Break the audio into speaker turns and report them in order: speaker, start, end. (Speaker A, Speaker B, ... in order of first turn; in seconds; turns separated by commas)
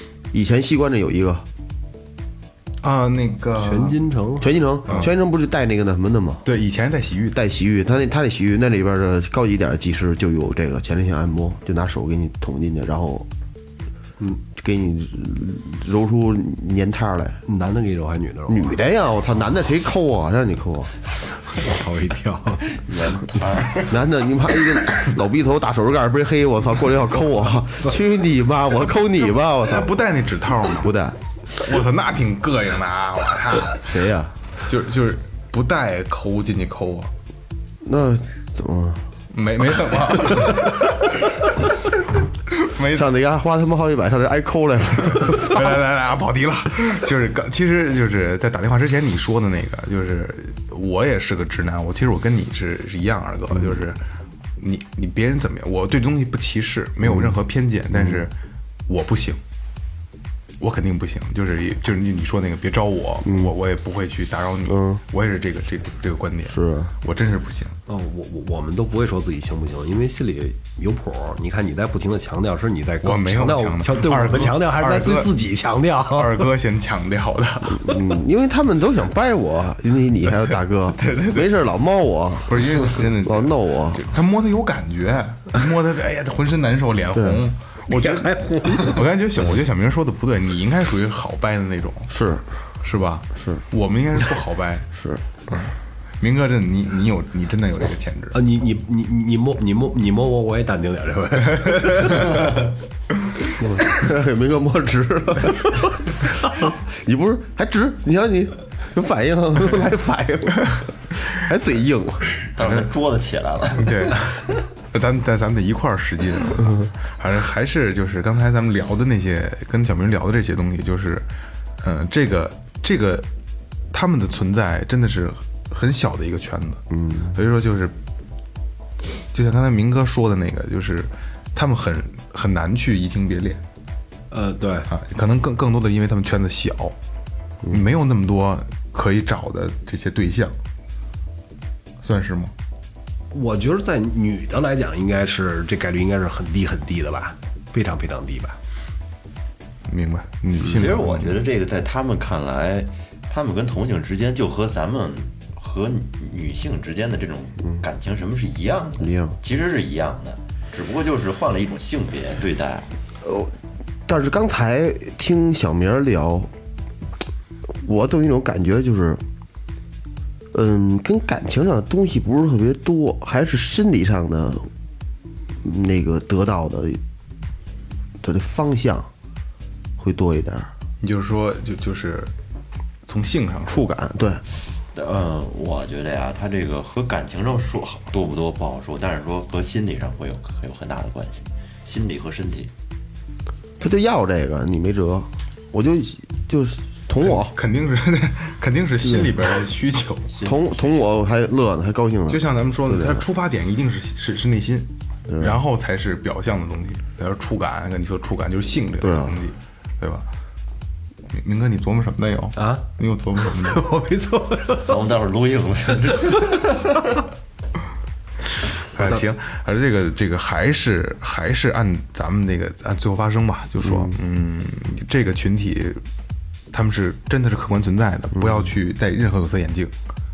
Speaker A: 0.3-1.4, Speaker B: 2.8-4.0, Speaker C: 3.6-4.5, Speaker A: 4.4-6.4, Speaker B: 6.4-7.4, Speaker A: 7.3-13.3, Speaker A: 14.5-17.4, Speaker C: 17.5-18.8, Speaker A: 18.5-20.9, Speaker C: 21.5-22.8, Speaker D: 22.8-24.0, Speaker A: 23.8-30.0, Speaker B: 29.6-30.9, Speaker A: 30.8-31.1, Speaker B: 31.5-33.8, Speaker A: 33.8-34.3, Speaker B: 34.6-37.1, Speaker A: 37.8-39.0, Speaker B: 39.3-40.9, Speaker B: 42.5-43.1, Speaker A: 42.9-45.7, Speaker B: 45.0-54.0, Speaker B: 54.6-58.3, Speaker A: 57.1-57.3, Speaker A: 57.9-58.2, Speaker B: 58.9-59.4, Speaker B: 60.6-67.8, Speaker A: 63.2-63.5, Speaker A: 64.7-65.0, Speaker A: 66.5-66.9, Speaker C: 67.9-76.5, Speaker B: 73.0-75.3, Speaker B: 76.1-78.0, Speaker A: 77.8-84.0, Speaker B: 80.3-81.5, Speaker B: 82.5-92.1, Speaker A: 87.2-87.4, Speaker C: 87.9-89.0, Speaker A: 92.1-92.4, Speaker B: 92.8-94.9, Speaker A: 95.0-95.2, Speaker B: 95.5-98.4, Speaker C: 98.3-102.6, Speaker B: 101.6-102.6, Speaker A: 103.6-112.4, Speaker D: 112.5-114.4, Speaker B: 112.6-112.9, Speaker B: 113.7-121.3, Speaker B: 121.8-123.3, Speaker B: 123.9-127.9, Speaker A: 126.9-127.3, Speaker B: 129.3-133.6, Speaker C: 134.3-134.9, Speaker B: 134.9-136.9, Speaker B: 137.7-140.5, Speaker B: 142.0-142.5, Speaker C: 143.3-148.6, Speaker B: 149.9-151.4, Speaker D: 150.6-162.9, Speaker A: 159.0-159.3, Speaker A: 163.2-163.5, Speaker A: 164.1-166.5, Speaker A: 167.7-169.2, Speaker A: 170.5-174.7, Speaker A: 175.6-177.0, Speaker A: 178.2-179.1, Speaker A: 180.0-180.7, Speaker B: 181.0-182.3, Speaker B: 183.1-183.8, Speaker A: 183.7-184.4, Speaker D: 184.9-192.7, Speaker A: 193.8-197.6, Speaker B: 197.2-200.4, Speaker A: 199.0-199.4, Speaker D: 200.3-201.1, Speaker A: 200.4-203.2, Speaker B: 202.3-210.3, Speaker A: 205.3-205.6, Speaker A: 209.0-209.4, Speaker B: 211.3-213.8, Speaker C: 212.6-212.8, Speaker C: 213.4-215.0, Speaker D: 214.8-217.1, Speaker B: 218.9-226.0, Speaker A: 223.8-224.1, Speaker B: 226.7-229.9, Speaker A: 228.4-228.6